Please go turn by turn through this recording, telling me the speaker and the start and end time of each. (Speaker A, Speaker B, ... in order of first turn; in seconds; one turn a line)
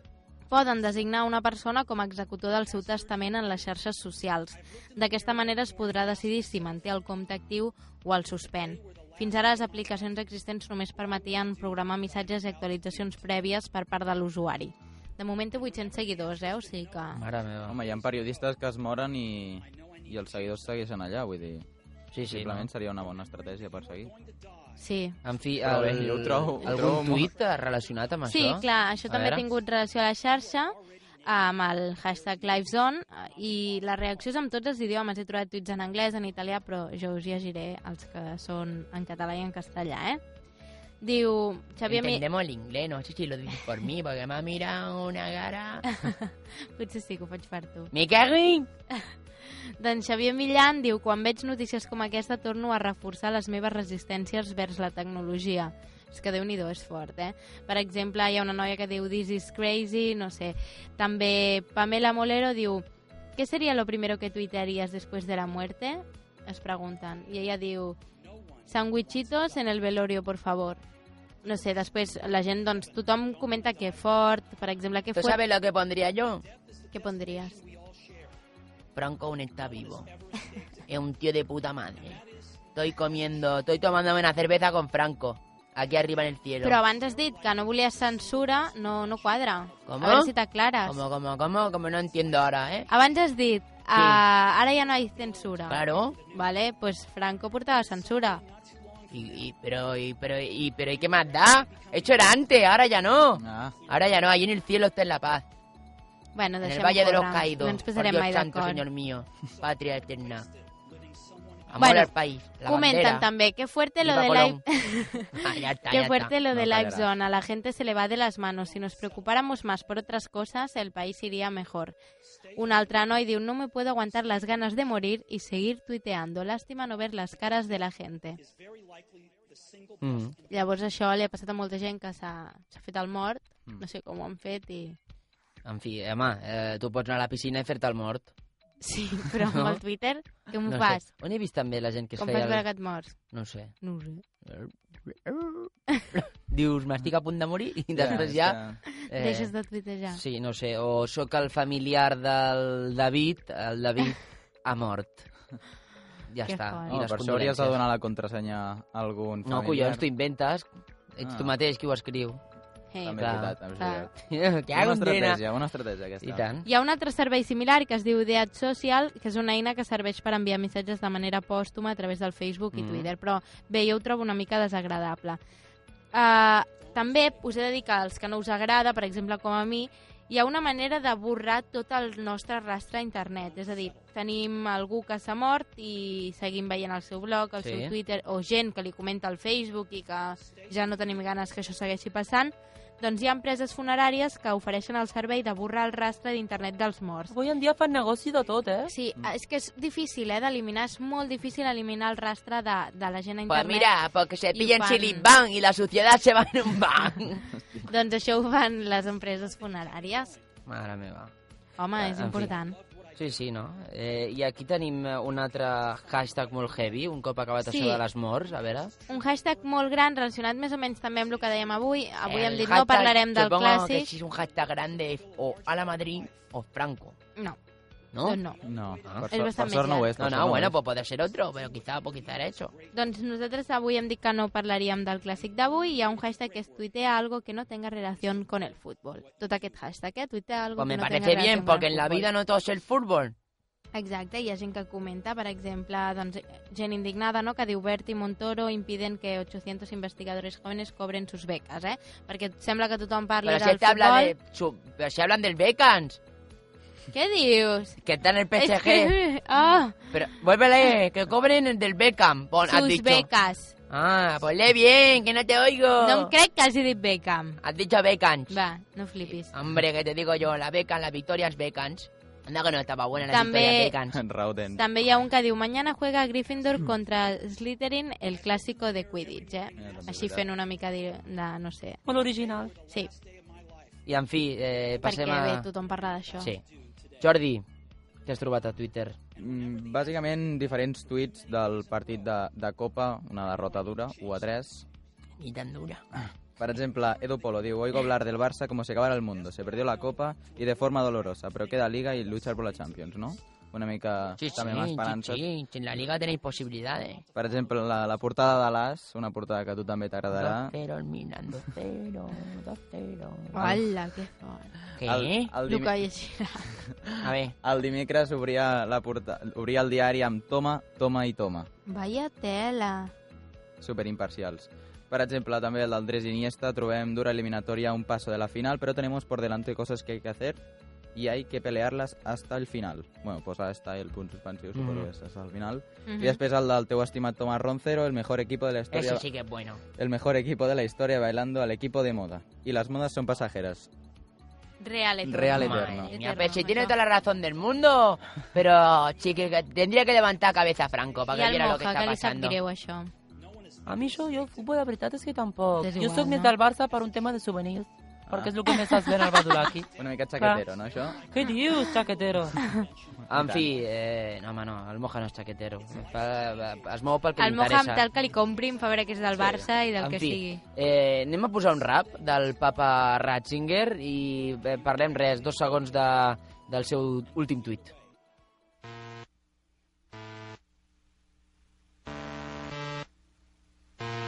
Speaker A: 0.5-17.2
Speaker B: 17.1-17.8
Speaker C: 17.7-21.7
Speaker B: 22.1-22.7
Speaker C: 22.3-24.1
Speaker A: 24.8-25.2
Speaker B: 25.2-29.4
Speaker C: 25.6-27.3
Speaker A: 28.3-40.2
Speaker A: 41.0-42.2
Speaker D: 41.9-45.9
Speaker A: 45.9-47.9
Speaker D: 47.9-48.7
Speaker A: 49.8-62.9
Speaker A: 63.4-68.0
Speaker A: 68.7-70.8
Speaker A: 71.4-75.4
Speaker D: 75.2-76.4
Speaker A: 76.9-77.6
Speaker D: 79.0-80.1
Speaker D: 80.9-82.2
Speaker D: 82.8-86.8
Speaker A: 86.6-91.0
Speaker D: 89.9-90.3
Speaker D: 90.9-92.9
Speaker A: 92.9-98.4
Speaker D: 93.9-94.2
Speaker D: 95.7-96.2
Speaker D: 99.1-105.4
Speaker C: 103.4-103.8
Speaker A: 106.3-108.8
Speaker D: 106.6-110.5
Speaker D: 111.7-113.3
Speaker A: 111.8-112.1
Speaker A: 112.7-122.0
Speaker D: 114.0-114.6
Speaker D: 115.4-116.3
Speaker C: 116.5-117.1
Speaker A: 122.6-128.4
Speaker B: 130.0-130.3
Speaker A: 130.5-135.0
Speaker B: 135.7-138.3
Speaker A: 138.8-141.1
Speaker B: 139.3-139.8
Speaker B: 140.7-142.7
Speaker A: 142.2-143.2
Speaker B: 143.3-143.8
Speaker A: 143.8-144.2
Speaker B: 144.5-145.7
Speaker B: 146.5-147.1
Speaker D: 147.1-148.6
Speaker C: 147.9-148.8
Speaker A: 148.9-150.2
Speaker B: 149.1-149.5
Speaker B: 150.1-155.3
Speaker B: 156.3-157.8
Speaker A: 156.5-156.9
Speaker C: 156.9-160.0
Speaker B: 159.5-162.4
Speaker C: 161.2-161.5
Speaker A: 162.9-164.1
Speaker C: 163.0-164.1
Speaker B: 163.2-163.6
Speaker B: 164.3-165.1
Speaker C: 164.7-166.4
Speaker D: 164.7-165.4
Speaker B: 166.2-166.7
Speaker A: 166.7-175.4
Speaker B: 172.7-173.1
Speaker A: 176.1-197.3
Speaker B: 187.6-187.9
Speaker E: 197.3-198.9
Speaker A: 198.9-203.9
Speaker D: 203.5-207.5
Speaker A: 204.5-205.3
Speaker A: 207.8-210.3
Speaker B: 210.7-211.3
Speaker A: 211.8-212.8
Speaker B: 212.0-212.6
Speaker B: 213.2-218.9
Speaker A: 217.6-218.0
Speaker A: 219.1-224.1
Speaker D: 222.2-227.2
Speaker D: 228.1-228.4
Speaker A: 228.2-228.6
Speaker C: 228.6-230.8
Speaker A: 229.3-230.2
Speaker D: 230.2-232.7
Speaker A: 232.9-242.3
Speaker D: 240.8-243.3
Speaker A: 243.9-254.3
Speaker D: 253.4-256.2
Speaker A: 257.1-258.0
Speaker D: 258.0-259.2
Speaker A: 258.6-260.1
Speaker D: 260.1-263.3
Speaker A: 262.7-263.7
Speaker D: 263.9-266.3
Speaker A: 266.0-267.6
Speaker D: 267.6-268.6
Speaker A: 268.5-269.5
Speaker D: 269.5-274.2
Speaker A: 273.3-274.0
Speaker C: 274.1-274.8
Speaker A: 274.8-282.0
Speaker C: 279.7-280.5
Speaker E: 282.1-282.7
Speaker A: 282.8-283.1
Speaker B: 284.1-285.7
Speaker A: 285.0-286.5
Speaker B: 287.2-287.6
Speaker B: 288.3-289.2
Speaker C: 289.4-294.9
Speaker D: 295.4-296.1
Speaker C: 296.2-305.4
Speaker D: 304.4-307.2
Speaker C: 307.4-310.7
Speaker D: 310.3-313.8
Speaker A: 313.5-314.7
Speaker D: 315.0-315.5
Speaker C: 315.0-316.0
Speaker A: 315.6-316.7
Speaker C: 317.1-321.7
Speaker D: 317.2-317.5
Speaker A: 321.9-323.1
Speaker C: 323.8-330.6
Speaker C: 331.1-339.2
Speaker B: 334.8-335.1
Speaker A: 336.1-336.4
Speaker D: 338.9-339.8
Speaker C: 340.0-343.9
Speaker A: 344.8-347.0
Speaker C: 345.2-346.1
Speaker D: 345.5-352.6
Speaker A: 351.3-353.1
Speaker E: 353.9-360.6
Speaker A: 355.8-356.6
Speaker C: 358.3-358.6
Speaker A: 358.7-359.4
Speaker C: 359.9-361.3
Speaker E: 361.2-362.6
Speaker A: 362.6-362.8
Speaker B: 363.3-368.1
Speaker C: 363.3-363.7
Speaker A: 367.4-370.6
Speaker B: 369.4-377.9